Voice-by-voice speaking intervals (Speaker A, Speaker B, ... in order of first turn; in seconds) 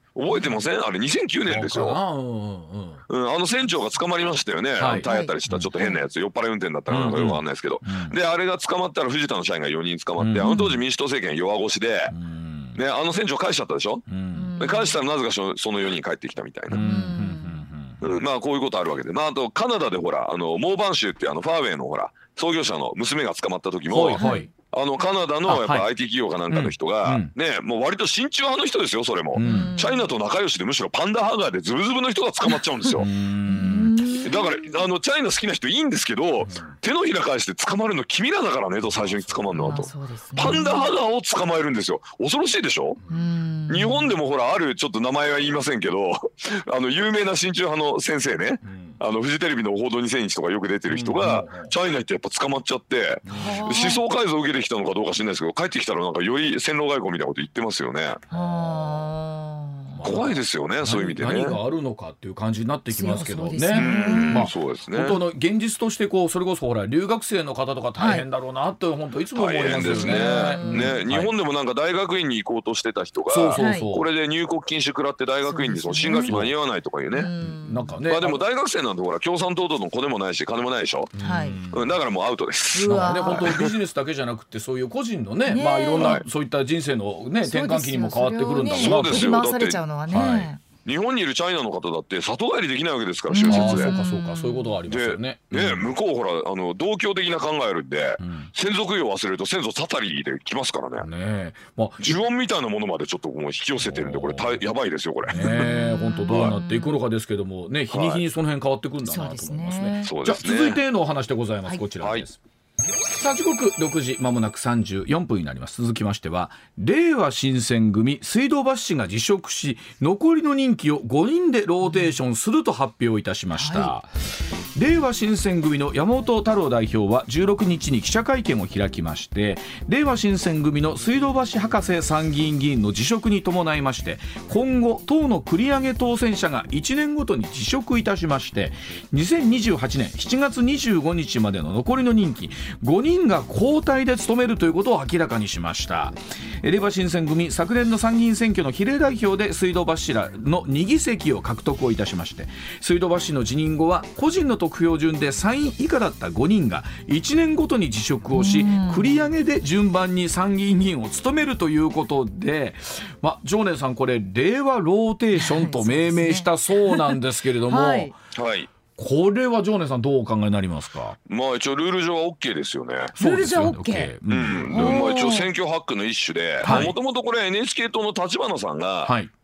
Speaker A: 0.1-2.0, 3.1-12.1, 12.7-16.9, 18.0-33.1, 34.2-43.0, 43.7-58.2, 60.0-61.6, 63.8-65.2, 69.3-77.3, 78.0-81.1, 81.7-83.7, 86.0-86.2, 88.8-89.8, 90.8-93.9, 94.9-101.1, 102.0-105.7, 106.3-106.5, 107.9-108.2, 110.0-110.8, 168.3-168.7, 171.3-173.1, 174.3-179.1
Speaker B: 1.4-3.0, 4.8-5.7, 6.9-8.2, 10.2-10.5, 12.1-12.8, 14.1-14.5, 16.7-18.1, 23.9-24.5, 25.4-25.9, 26.5-27.3, 29.3-29.7, 32.9-34.0, 36.4-36.7, 38.8-39.8, 48.6-49.0, 50.9-51.7, 53.2-53.7, 58.3-59.1, 59.9-71.3, 73.3-74.1, 76.2-76.6, 77.6-78.4, 81.1-81.9, 82.9-89.3, 90.1-90.5, 93.4-95.9, 98.2-98.5, 101.0-102.1, 103.8-104.6, 105.3-112.4, 113.2-124.1, 124.8-168.1, 168.9-171.2, 173.2-175.0, 176.6-176.9, 179.0-179.3
Speaker C: 5.0-6.0, 10.4-10.8, 14.3-15.0, 16.8-17.7, 24.2-24.5, 29.4-30.1, 33.4-34.8, 39.5-40.9, 43.1-44.1, 53.3-54.0, 58.3-59.9, 62.9-64.5, 68.0-68.2, 69.7-71.0, 73.6-73.9, 75.4-76.3, 77.1-77.9, 81.2-81.6, 82.7-83.5, 85.5-86.2, 87.4-90.6, 93.3-94.8, 105.4-107.0, 109.0-110.1, 121.8-122.1, 123.5-123.9, 158.3-159.2, 165.3-168.1, 173.2-174.1, 174.7-175.5